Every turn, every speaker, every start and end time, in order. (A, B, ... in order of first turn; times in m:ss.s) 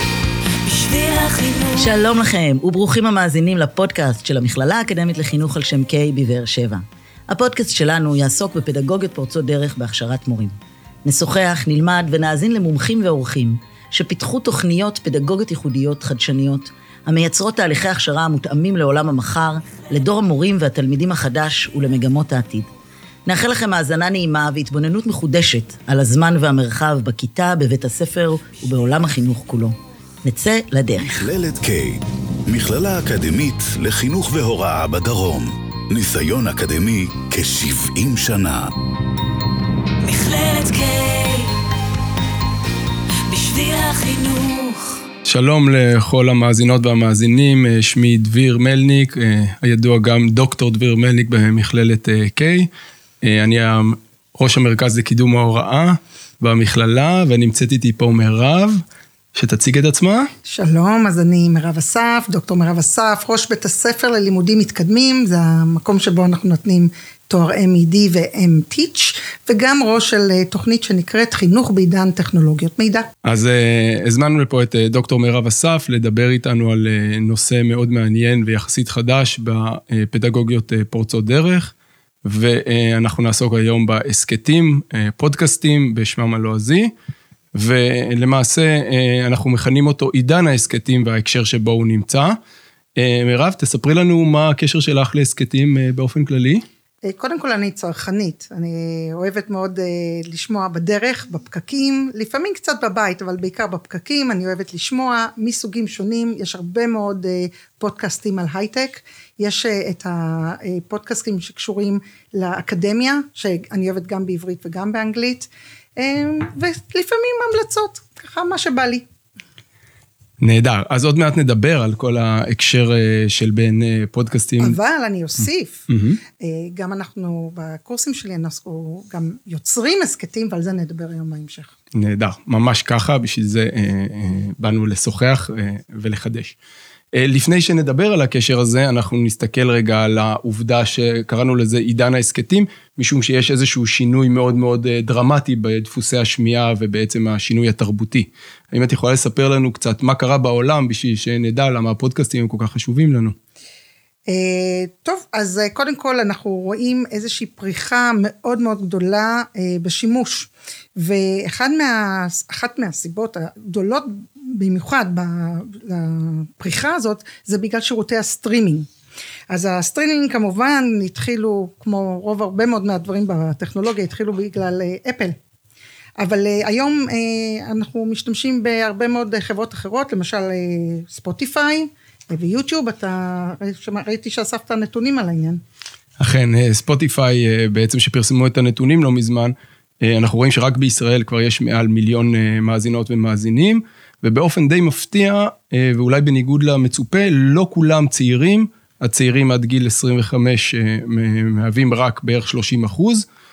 0:00.6-0:02.0 A
0:01.8-0:22.7 B
0:23.3-0:31.3 B
0:31.0-0:38.7 C
0:40.0-0:41.5 A
0:43.3-0:45.0 A
0:45.3-0:52.7 D
0:53.2-0:58.8 D
0:59.3-1:00.3 D
1:00.4-1:13.1 E
1:13.2-1:21.7 D
1:22.2-1:26.9 D
1:27.5-1:32.4 D
1:33.0-1:36.6 D
1:37.0-1:59.0 E
2:00.4-2:04.8 D
2:04.6-2:05.9 E
2:05.9-2:06.2 D
2:06.4-2:11.7 E
2:12.0-2:16.6 D
2:17.1-2:33.4 D
2:34.3-2:48.9 E
2:49.5-2:55.4 E
2:56.2-3:05.6 E
3:06.2-3:23.3 D